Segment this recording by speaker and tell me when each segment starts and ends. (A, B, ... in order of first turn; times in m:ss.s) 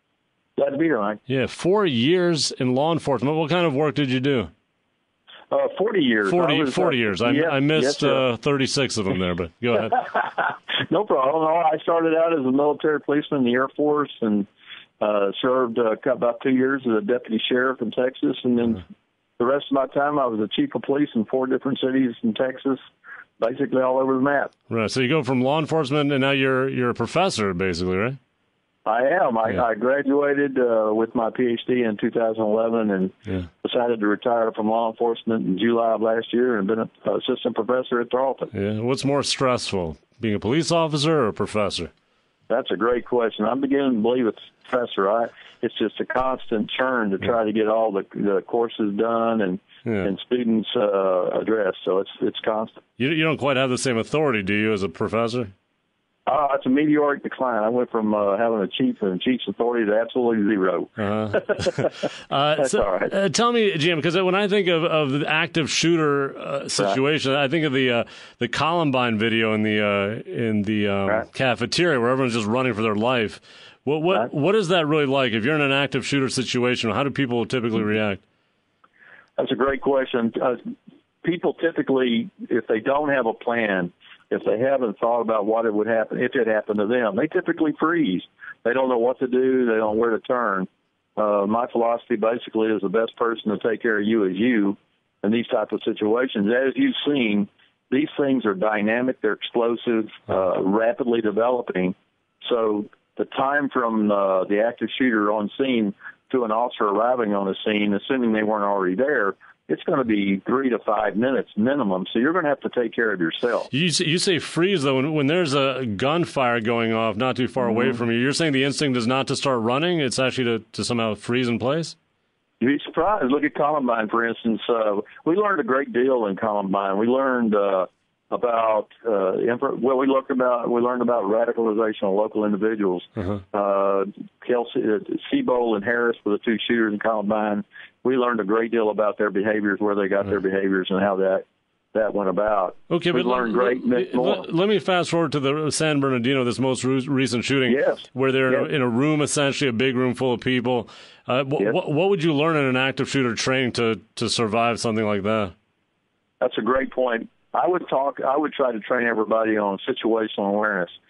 0:00.6-0:01.2 A
0:01.3-0:04.5 B
0:05.5-0:08.2 A
0:06.3-0:10.1 B
0:09.9-0:14.5 A
0:15.0-0:18.8 A
0:19.4-0:22.8 A
0:23.4-0:24.5 A
0:24.7-0:28.2 B
0:28.9-0:38.5 A
0:38.5-0:41.9 B
0:42.5-0:52.8 A
0:53.0-0:55.5 B
0:56.3-1:01.9 A
1:01.0-1:18.2 B
1:02.6-1:03.1 A
1:19.4-1:20.6 A
1:21.2-1:53.7 A
1:53.7-2:02.0 B
2:02.6-2:24.5 A
2:22.9-2:35.5 B
2:27.7-2:28.6 A
2:36.4-2:41.0 A